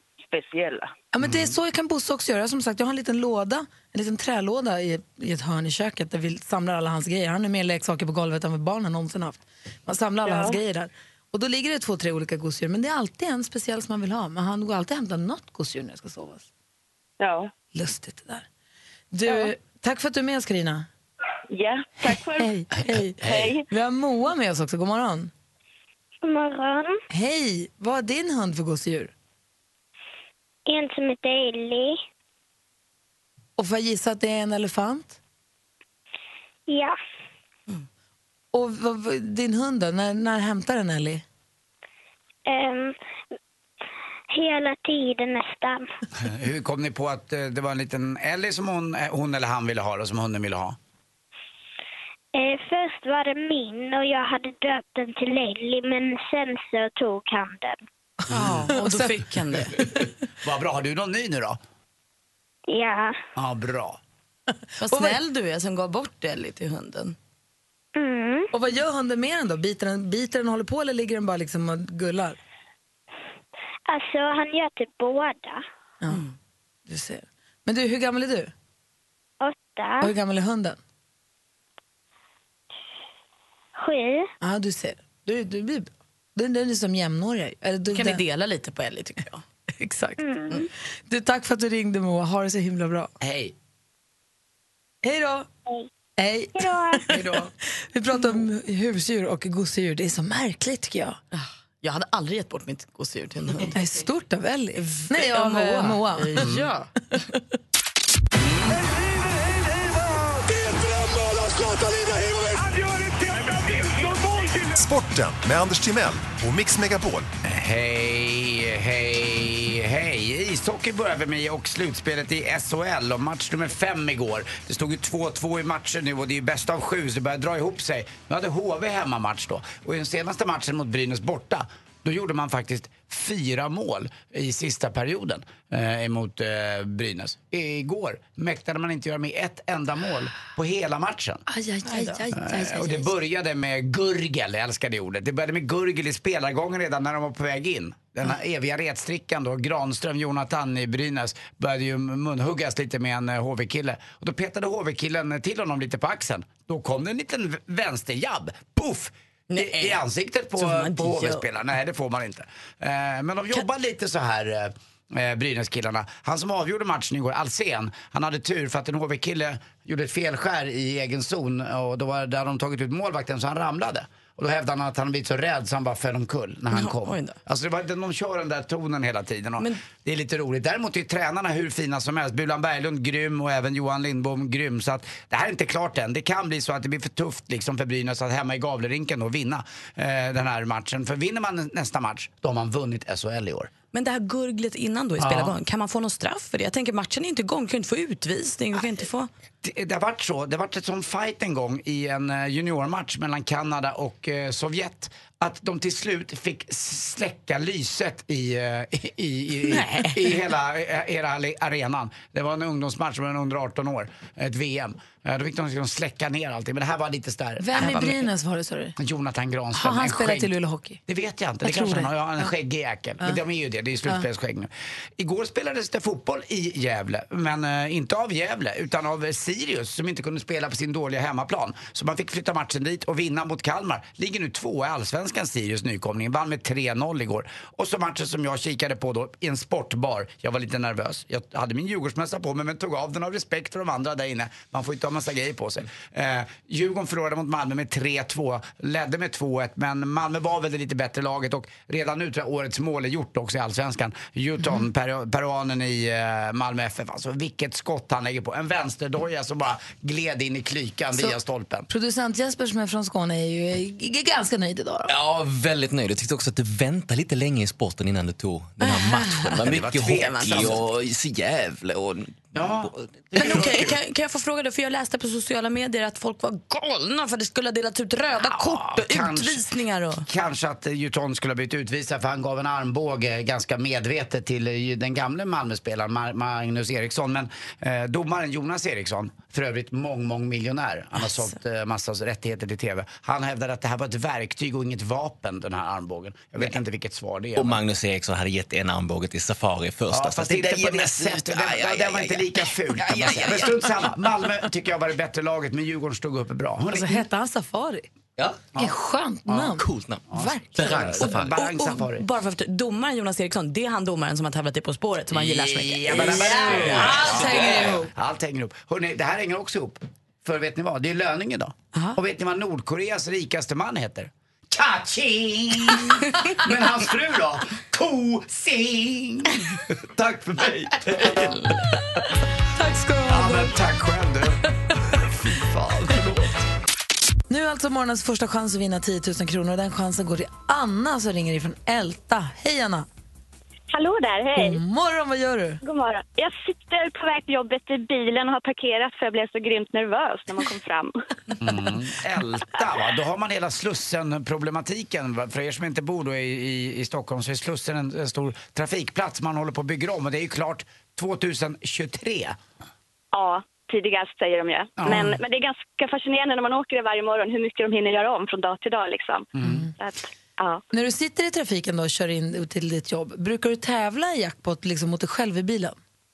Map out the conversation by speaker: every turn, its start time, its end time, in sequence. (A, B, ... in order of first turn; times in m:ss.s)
0:00.2-0:00.9 A
0:01.1-0:16.5 B
0:01.2-0:01.5 C
0:10.2-0:10.6 A
0:17.2-0:17.5 A
0:17.7-0:18.5 B
0:19.1-0:20.9 B
0:21.5-0:22.5 A
0:22.4-0:25.3 B
0:23.2-0:23.7 A
0:26.2-0:27.0 D
0:27.1-0:29.1 B
0:30.7-0:32.0 D
0:33.6-0:35.2 B
0:36.7-0:37.0 D
0:38.5-0:41.2 B
0:42.5-0:43.0 D
0:44.3-0:45.9 D
0:46.2-0:50.8 C
0:52.4-0:57.8 D
0:58.3-0:59.2 B
0:58.3-0:58.7 C
0:58.3-0:59.7 E
0:59.8-1:00.1 B
1:00.4-1:01.6 C
1:02.7-1:03.2 D
1:03.4-1:04.0 C
1:04.8-1:07.2 E
1:04.9-1:05.2 B
1:08.0-1:08.5 D
1:08.5-1:12.4 B
1:13.9-1:15.6 D
1:16.9-1:18.5 B
1:19.4-1:20.1 D
1:20.0-1:20.8 B
1:23.8-1:24.3 D
1:24.4-1:28.2 B
1:27.9-1:30.6 E
1:30.2-1:30.7 D
1:31.1-1:33.1 B
1:33.2-1:33.6 C
1:35.0-1:35.5 B
1:36.2-1:37.4 B
1:36.6-1:37.0 D
1:37.1-1:37.5 C
1:37.9-1:41.2 B
1:41.3-1:43.7 E
1:43.7-1:46.4 B
1:44.8-1:47.2 E
1:46.4-1:46.7 C
1:48.4-1:48.8 C
1:54.8-1:57.3 F
1:57.4-2:21.4 C
2:21.5-2:23.1 B
2:22.3-3:13.7 C
2:39.5-2:40.0 E
2:40.6-2:41.4 E
2:56.7-2:57.4 E
3:13.9-3:19.3 E
3:15.2-3:15.6 C
3:19.6-3:38.2 C
3:37.6-3:39.0 B
3:37.8-3:38.1 E
3:39.0-3:40.5 C
3:39.7-3:41.0 B
3:41.1-4:21.9 C
3:41.6-3:42.5 B
4:21.9-4:25.1 B
4:25.1-4:32.7 G
4:28.8-4:29.6 E
4:29.6-4:30.8 C
4:30.1-4:30.7 E
4:32.5-4:34.0 C
4:33.4-4:40.3 E
4:38.4-4:39.6 C
4:40.2-4:57.8 C
4:57.6-5:04.2 G
5:00.1-5:07.3 C
5:06.9-5:08.1 B
5:08.4-5:08.7 G
5:08.8-5:11.2 B
5:09.5-5:12.3 C
5:09.8-5:11.6 G
5:11.3-5:16.6 E
5:15.3-5:31.8 C
5:16.2-5:17.7 G
5:16.7-5:18.1 B
5:32.8-5:33.7 B
5:33.3-5:34.6 C
5:35.1-5:36.6 C
5:37.5-5:43.1 B
5:43.9-5:44.8 H
5:44.6-5:45.8 B
5:45.8-5:51.1 H
5:51.6-6:02.6 C
6:03.3-6:10.8 H
6:05.0-6:05.4 C
6:09.6-6:09.8 C
6:09.6-6:09.9 B
6:10.9-6:16.0 B